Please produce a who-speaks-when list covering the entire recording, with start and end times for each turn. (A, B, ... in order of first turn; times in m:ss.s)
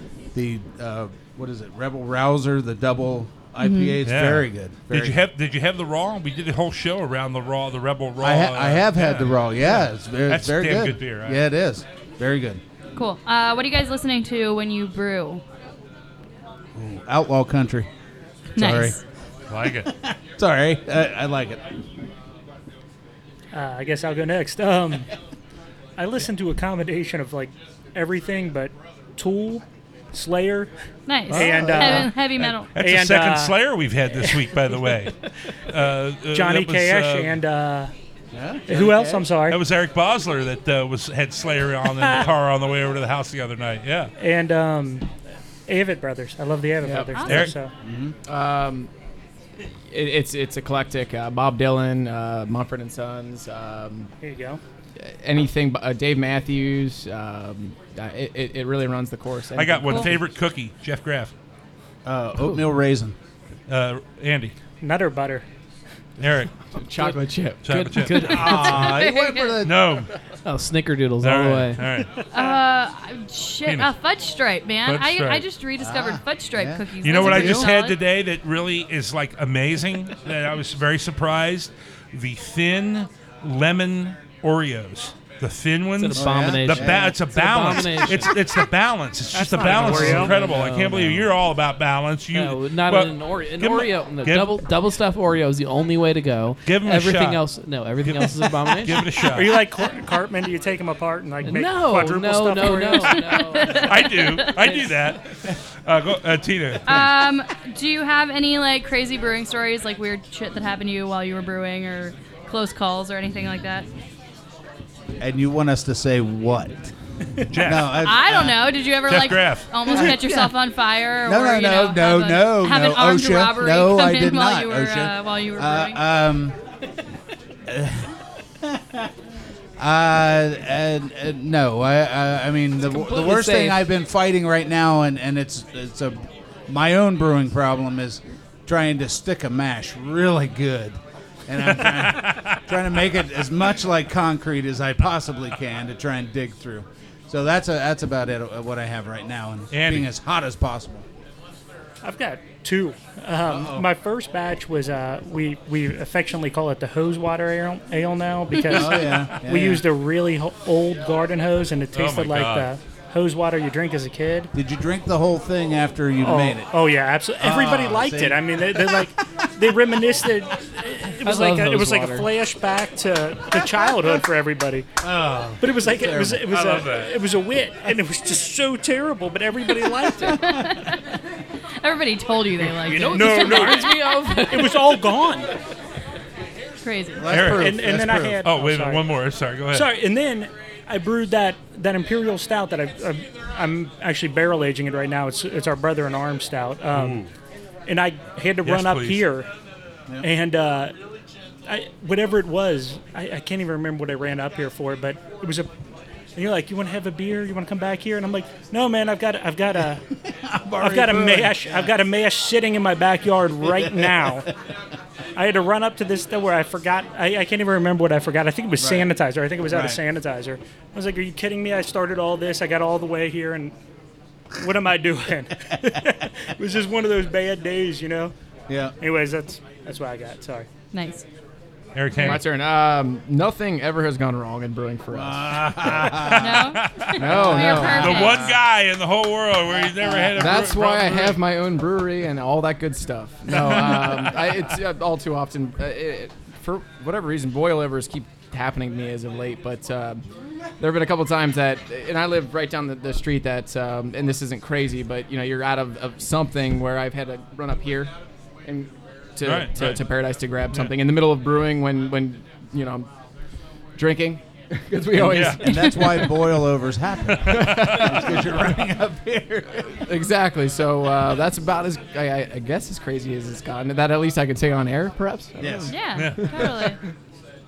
0:00.3-0:05.2 A
0:03.6-0:04.0 B
0:04.0-0:11.4 C
0:08.2-0:12.6 A
0:13.0-0:15.4 B
0:16.8-0:17.9 A
0:18.6-0:19.0 A
0:18.6-0:19.0 B
0:19.5-0:19.9 C
0:19.8-0:21.6 A
0:23.5-0:25.1 D
0:26.0-0:30.7 D
0:31.1-0:32.7 B
0:31.3-0:32.2 D
0:31.3-0:32.1 A
0:32.4-0:37.4 C
0:32.8-0:33.6 D
0:34.1-0:34.8 D
0:36.3-0:37.9 D
0:38.3-0:39.2 A
0:38.7-0:39.6 D
0:39.5-0:44.1 C
0:44.2-0:45.1 D
0:45.7-0:47.7 D
0:46.8-0:47.2 E
0:47.2-0:47.5 B
0:47.2-0:47.5 C
0:47.8-0:48.1 A
0:48.2-0:48.9 E
0:49.9-0:54.1 E
0:54.2-0:54.6 D
0:55.0-1:00.2 E
0:59.5-1:01.3 C
0:59.9-1:00.1 B
1:02.0-1:03.2 A
1:03.7-1:04.5 C
1:04.8-1:05.5 D
1:06.2-1:06.5 C
1:06.7-1:07.6 E
1:07.0-1:08.8 F
1:07.6-1:09.0 C
1:08.4-1:10.0 A
1:08.4-1:09.6 B
1:09.6-1:10.1 C
1:10.4-1:11.8 F
1:11.2-1:12.1 C
1:12.3-1:18.0 B
1:14.8-1:15.4 C
1:15.8-1:17.7 A
1:17.0-1:34.6 C
1:26.0-1:28.4 F
1:26.1-1:27.1 A
1:29.3-1:30.3 D
1:29.6-1:31.3 F
1:32.3-1:39.0 F
1:36.6-1:37.4 C
1:38.0-1:39.6 C
1:39.3-1:43.2 D
1:41.4-1:45.1 F
1:43.3-1:44.5 B
1:43.7-1:47.0 C
1:46.8-1:53.9 B
1:55.2-1:56.9 A
1:57.5-1:58.1 C
1:57.5-1:58.5 A
1:57.9-2:06.0 B
1:59.1-2:00.0 C
1:59.9-2:00.5 A
2:01.2-2:06.6 A
2:07.7-2:09.1 A
2:09.8-2:31.0 A
2:12.8-2:13.9 F
2:21.6-2:22.6 C
2:29.7-2:30.1 C
2:32.0-2:44.5 D
2:33.5-2:33.8 A
2:38.7-2:39.8 A
2:41.9-2:42.7 C
2:44.5-2:46.7 A
2:46.2-2:54.9 D
2:47.4-2:49.1 A
2:51.2-2:52.3 F
2:55.0-2:56.5 A
2:55.6-3:00.7 D
2:56.5-2:57.1 C
3:00.3-3:01.1 B
3:01.8-3:04.4 B
3:02.7-3:05.5 D
3:02.9-3:04.8 F
3:06.8-3:07.3 B
3:07.1-3:08.4 A
3:07.3-3:07.8 C
3:07.4-3:09.0 D
3:08.4-3:09.9 C
3:09.7-3:17.2 D
3:16.9-3:17.3 C
3:17.9-3:19.5 D
3:18.6-3:19.2 C
3:20.2-3:21.0 D
3:21.6-3:25.7 D
3:26.3-3:30.0 D
3:30.3-3:31.9 A
3:30.8-3:34.5 D
3:33.7-3:34.3 A
3:35.4-3:43.8 D
3:38.8-3:39.1 A
3:39.7-3:40.0 A
3:44.6-3:48.3 D
3:48.7-3:48.9 A
3:49.0-3:50.7 D
3:50.9-3:51.2 B
3:51.9-3:52.4 C
3:52.2-3:52.4 B
3:52.2-3:55.5 E
3:55.1-3:56.5 A
3:55.5-4:01.4 C
3:56.4-3:58.6 B
3:57.1-3:58.5 E
4:00.0-4:10.2 E
4:03.6-4:04.6 C
4:10.8-4:18.1 E
4:18.6-4:23.1 E
4:19.4-4:20.0 C
4:24.0-4:26.3 E
4:25.2-4:25.9 C
4:25.5-4:30.0 A
4:27.4-4:28.4 C
4:27.4-4:28.2 E
4:30.0-4:37.0 E
4:35.6-4:35.9 A
4:35.9-4:37.0 B
4:36.1-4:36.6 C